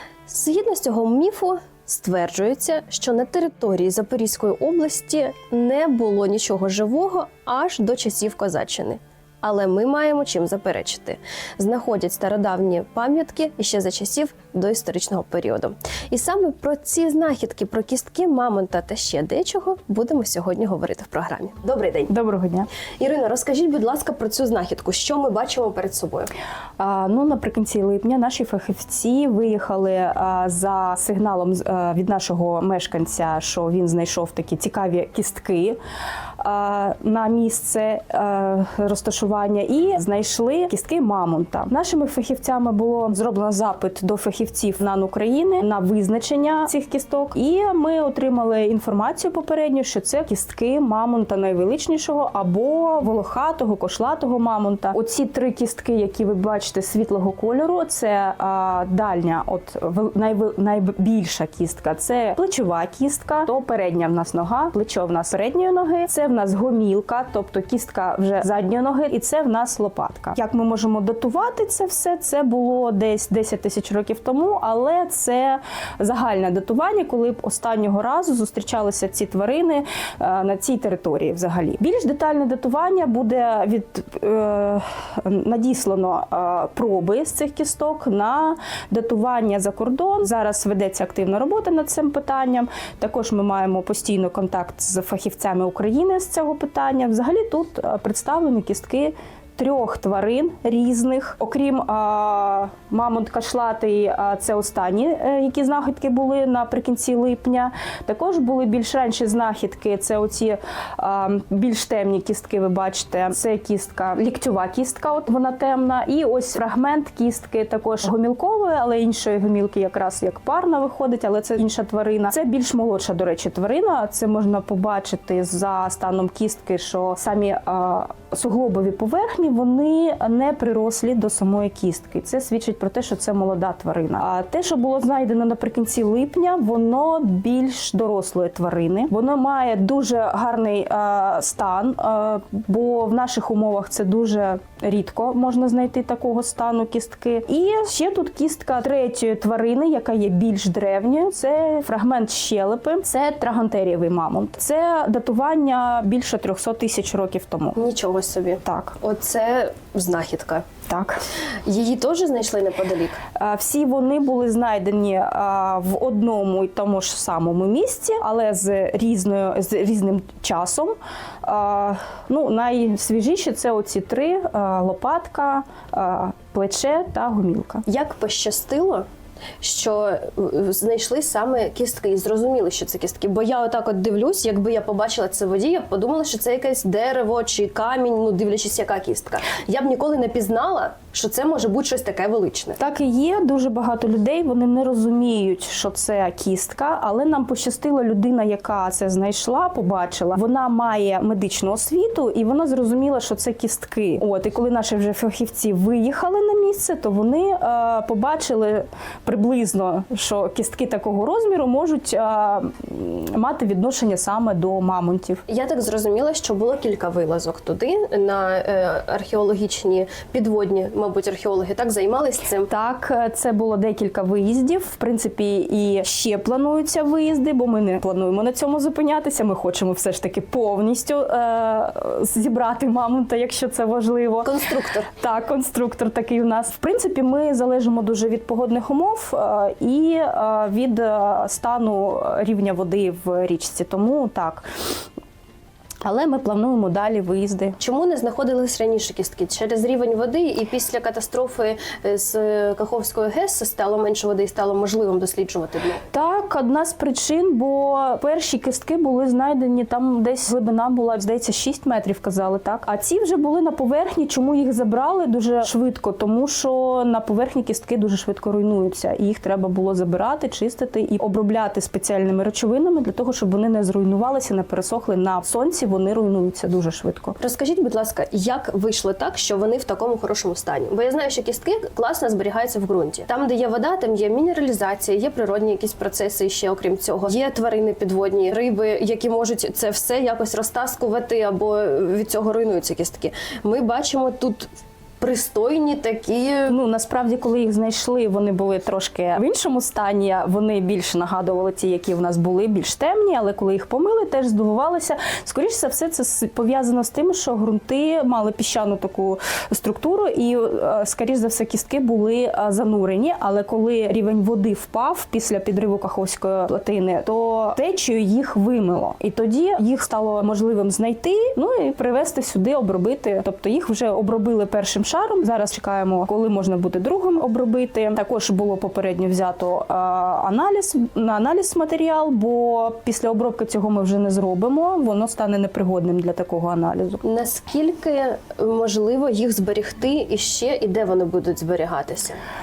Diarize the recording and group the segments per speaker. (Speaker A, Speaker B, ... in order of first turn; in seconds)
Speaker A: 0.3-22.1, 23.0-26.3, 157.8-160.7, 161.7-163.2, 177.8-179.1, 179.6-192.8, 215.5-222.7, 234.4-235.1, 247.8-256.0, 277.4-296.8, 337.2-342.4
Speaker B: 22.1-22.7, 26.8-35.8, 36.4-157.8, 158.6-159.0, 160.9-161.2, 163.3-177.8, 192.8-215.4, 222.7-234.5, 235.2-244.7, 246.0-247.8, 256.1-277.4, 296.7-337.2